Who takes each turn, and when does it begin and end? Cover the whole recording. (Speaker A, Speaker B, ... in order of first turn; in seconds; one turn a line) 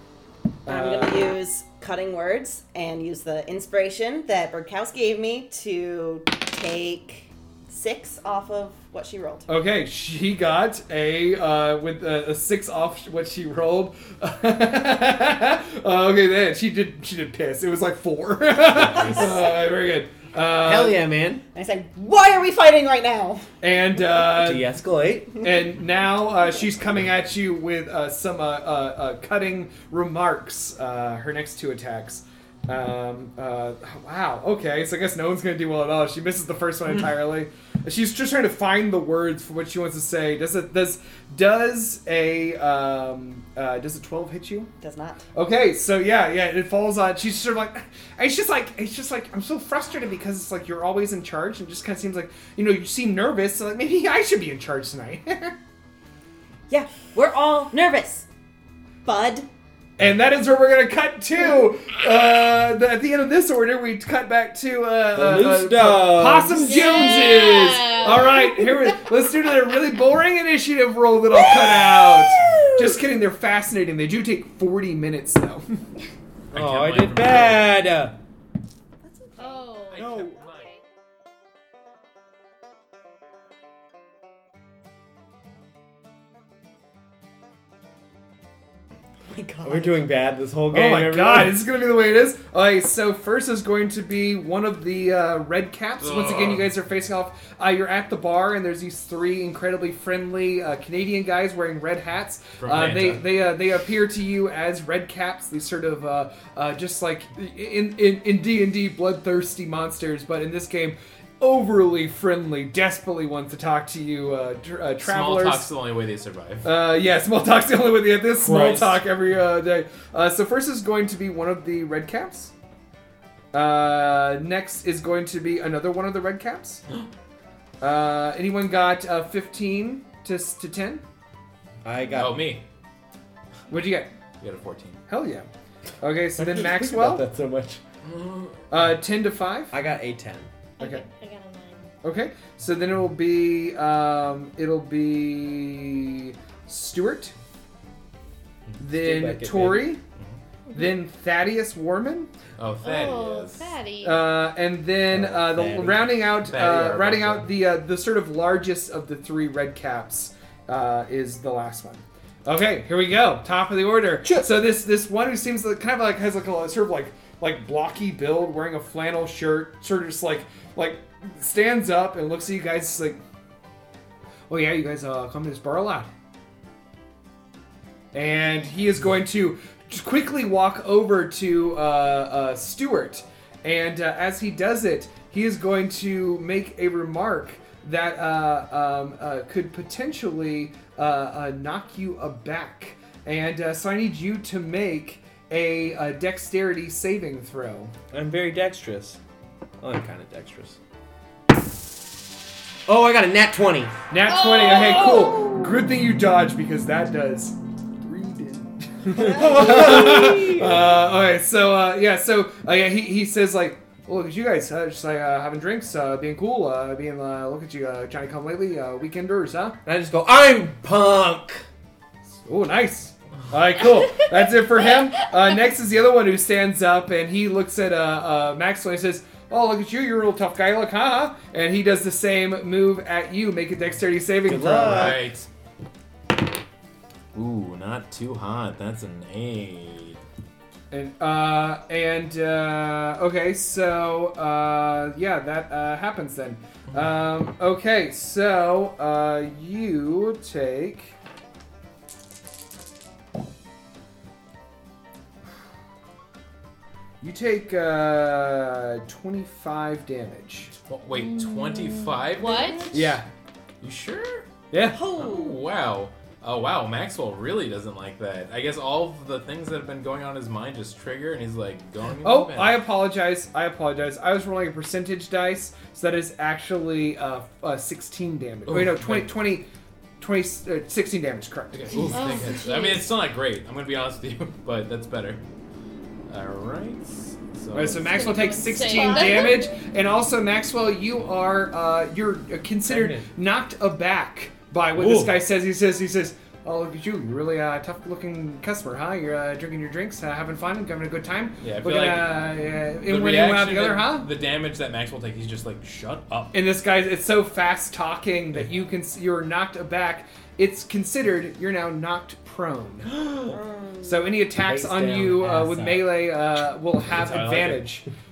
Speaker A: 0.7-1.3
Speaker B: 0.7-9.5
Speaker A: 9.5-21.0
Speaker C: 18.8-19.1
Speaker D: 20.6-21.4
Speaker B: 21.5-23.5
Speaker A: 23.6-24.7
Speaker D: 24.4-25.4
Speaker A: 25.4-44.7
Speaker B: 44.8-45.3
Speaker A: 45.4-55.5
Speaker B: 56.7-58.3
Speaker B: 59.0-59.5
Speaker A: 60.0-75.7
Speaker D: 65.1-67.0
Speaker E: 66.6-68.4
Speaker B: 71.6-72.7
Speaker C: 76.5-77.8
Speaker D: 76.5-78.2
Speaker B: 79.0-79.7
Speaker E: 79.4-80.8
Speaker C: 79.9-80.7
Speaker D: 80.0-80.4
Speaker B: 89.3-90.0
Speaker D: 89.6-91.6
Speaker A: 90.7-115.7
Speaker C: 96.0-96.7
Speaker C: 102.6-103.2
Speaker C: 115.0-116.7
Speaker A: 116.6-122.5
Speaker D: 118.4-119.0
Speaker A: 123.5-126.8
Speaker A: 127.8-131.0
Speaker D: 131.8-132.5
Speaker C: 132.2-132.6
Speaker A: 133.7-134.1
Speaker C: 134.4-135.0
Speaker A: 135.1-135.5
Speaker A: 136.0-137.3
Speaker D: 136.4-137.8
Speaker C: 138.0-138.8
Speaker A: 138.7-139.8
Speaker D: 139.7-140.5
Speaker E: 140.8-141.9
Speaker A: 142.0-147.3
Speaker A: 148.8-150.0
Speaker D: 148.9-149.9
Speaker A: 150.7-152.3
Speaker C: 152.6-153.7
Speaker E: 152.8-154.3
Speaker A: 154.0-173.2
Speaker D: 155.1-156.2
Speaker C: 156.4-157.5
Speaker A: 174.5-176.1
Speaker A: 178.1-197.9
Speaker D: 198.1-199.2
Speaker D: 199.8-200.8
Speaker D: 202.9-204.0
Speaker A: 204.1-219.8
Speaker E: 204.3-205.5
Speaker B: 209.1-210.0
Speaker D: 209.2-210.8
Speaker D: 219.9-221.7
Speaker A: 222.4-235.2
Speaker D: 234.4-235.2
Speaker C: 234.8-235.5
Speaker C: 237.3-240.2
Speaker A: 240.9-251.1
Speaker A: 257.2-260.7
Speaker C: 260.9-263.0
Speaker E: 261.1-262.9
Speaker B: 262.4-262.9
Speaker A: 262.9-263.3
Speaker C: 263.8-264.5
Speaker A: 264.7-265.0
Speaker B: 264.8-265.6
Speaker C: 265.1-272.8
Speaker A: 272.2-279.7
Speaker C: 278.7-279.3
Speaker A: 280.2-282.2
Speaker C: 281.7-285.4
Speaker E: 282.1-283.1
Speaker C: 286.3-288.1
Speaker A: 287.7-304.3
Speaker E: 288.1-289.8
Speaker B: 288.8-289.5
Speaker D: 292.9-293.3
Speaker D: 295.0-295.3
Speaker C: 301.6-302.5
Speaker C: 303.1-306.5
Speaker A: 306.5-313.1
Speaker B: 313.4-314.4
Speaker A: 314.0-318.1
Speaker D: 314.6-316.3
Speaker C: 317.2-317.9